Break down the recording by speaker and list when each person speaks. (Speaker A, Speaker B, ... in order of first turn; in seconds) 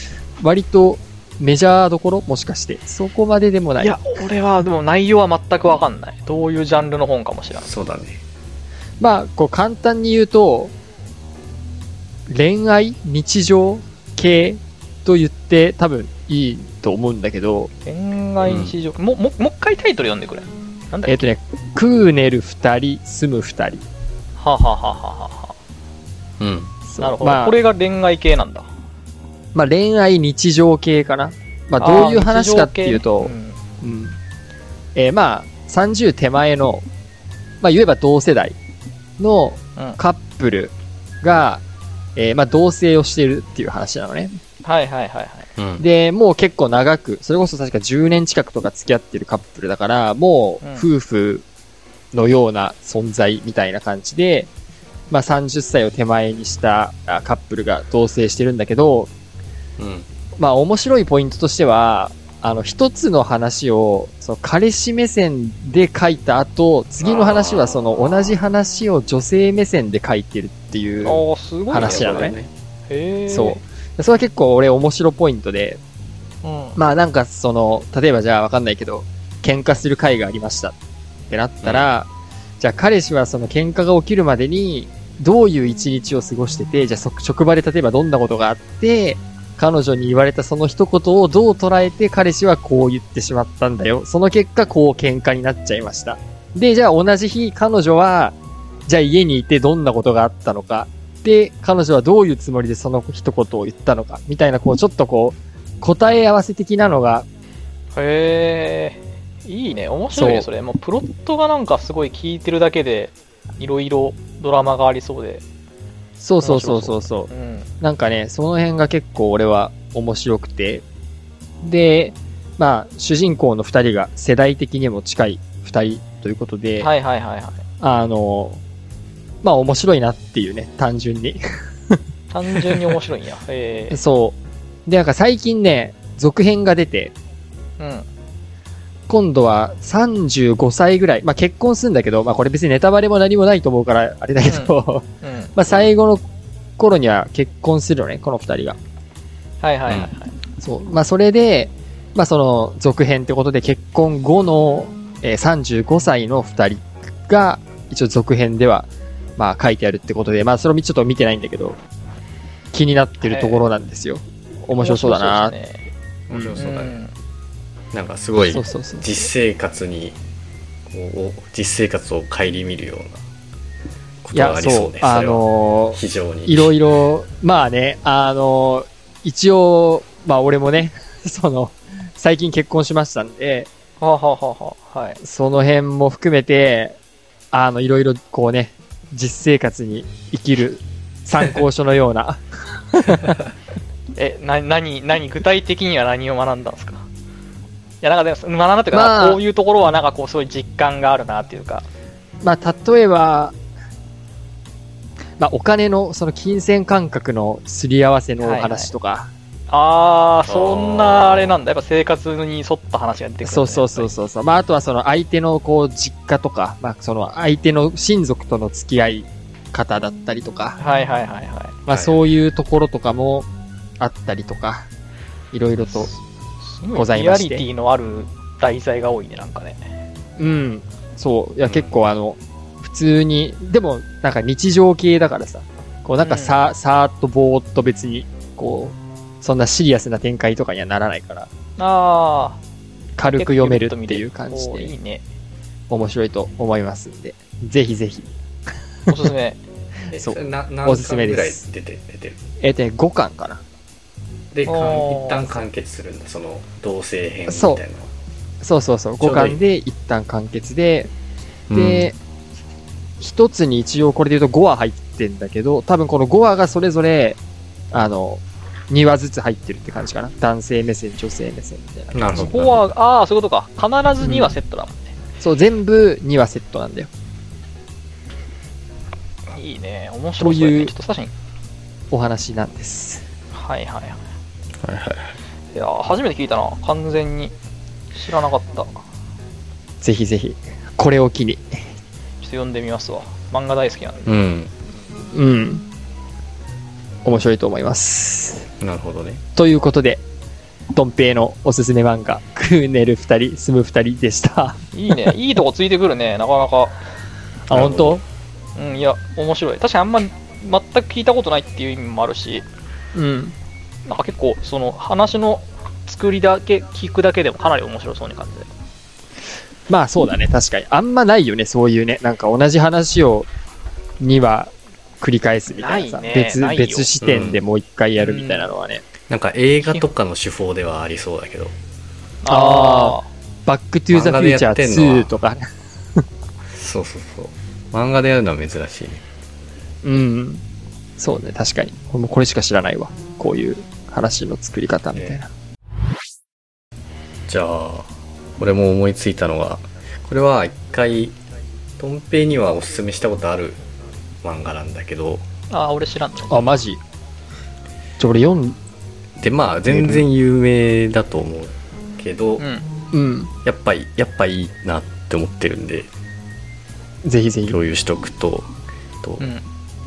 Speaker A: 0.4-4.0, 9.0-10.7, 12.3-17.7, 21.1-23.9, 26.9-27.6, 29.5-34.2, 35.0-36.9, 37.6-38.6, 39.2-41.6, 42.2-44.4, 45.8-51.4, 52.1-54.5, 55.1-59.1, 60.4-72.3, 73.3-75.8, 76.8-80.8, 81.3-82.1, 82.6-98.4, 98.9-107.3, 110.1-110.5, 116.2-117.3, 117.8-120.8, 121.6-126.9, 127.8-128.6, 129.4-132.0, 132.5-132.9, 133.9-137.1, 139.1-146.2, 146.8-148.8, 150.6-161.8, 162.7-165.5, 166.3-166.6, 168.4-169.1, 174.3-183.7, 185.2-187.0, 187.5-193.4, 198.9-199.4, 202.4-203.6, 205.4-209.3, 213.4-220.8, 221.9-223.5, 224.0-224.9, 225.5-226.1, 226.9-227.6, 230.4-241.5, 243.2-244.9, 245.9-248.3, 250.2-251.6, 252.6-253.6, 257.5-257.8, 258.6-261.1, 261.7-262.1, 263.2-267.4, 267.9-272.5, 274.2-274.5, 275.4-277.1, 280.4-280.9, 282.1-283.2, 290.0-291.9, 295.3-295.9, 297.2-298.7, 299.6-300.2, 300.9-304.8, 307.7-308.2, 313.1-313.6, 319.9-323.5, 324.2-329.0, 332.5-336.2, 340.0-340.6, 341.2-345.5, 356.5-357.0, 358.2-358.8, 359.9-360.3, 363.1-363.5, 367.2-367.8
Speaker B: 3.8-7.7, 17.9-21.3, 24.4-25.6, 27.0-28.7, 31.8-33.6, 44.6-45.5, 50.6-50.9, 71.0-72.3, 72.9-73.6, 76.4-76.8, 108.0-115.4, 116.4-117.7, 126.8-127.6, 132.3-134.0, 137.8-138.1, 144.4-145.5, 149.6-150.4, 163.2-163.7, 164.8-165.9, 166.6-167.1, 184.0-185.2, 194.2-197.1, 198.0-201.9, 208.4-208.9, 209.7-214.1, 220.8-221.8, 225.9-229.8, 236.2-236.6, 241.8-242.6, 243.3-245.2, 249.1-249.6, 254.7-255.6, 272.3-275.1, 279.5-281.3, 283.5-284.2, 285.7-287.5, 288.1-288.9, 292.4-294.4, 304.9-307.0, 308.8-312.6, 314.1-318.7, 325.7-327.1, 328.2-328.7, 329.8-330.1, 332.4-333.3, 355.7-356.7, 362.6-362.9
Speaker C: 7.6-8.2, 18.4-18.8, 26.4-26.7, 45.6-45.8, 59.8-60.1, 67.0-67.8, 71.7-72.5, 81.6-81.9, 166.3-167.0, 167.9-170.2, 170.9-173.2, 174.2-175.4, 175.9-176.8, 210.5-211.6, 221.9-222.2, 231.7-231.9, 250.1-252.4, 254.5-258.1, 259.2-259.6, 261.7-262.1, 272.1-272.9, 284.8-285.4, 294.2-294.7, 298.8-299.4, 307.7-308.2, 327.2-327.6, 329.3-331.8, 334.1-335.3, 336.7-339.2, 347.5-351.4, 352.0-353.8, 354.4-355.4, 359.4-362.6, 363.6-366.1, 367.7-368.7, 369.2-369.5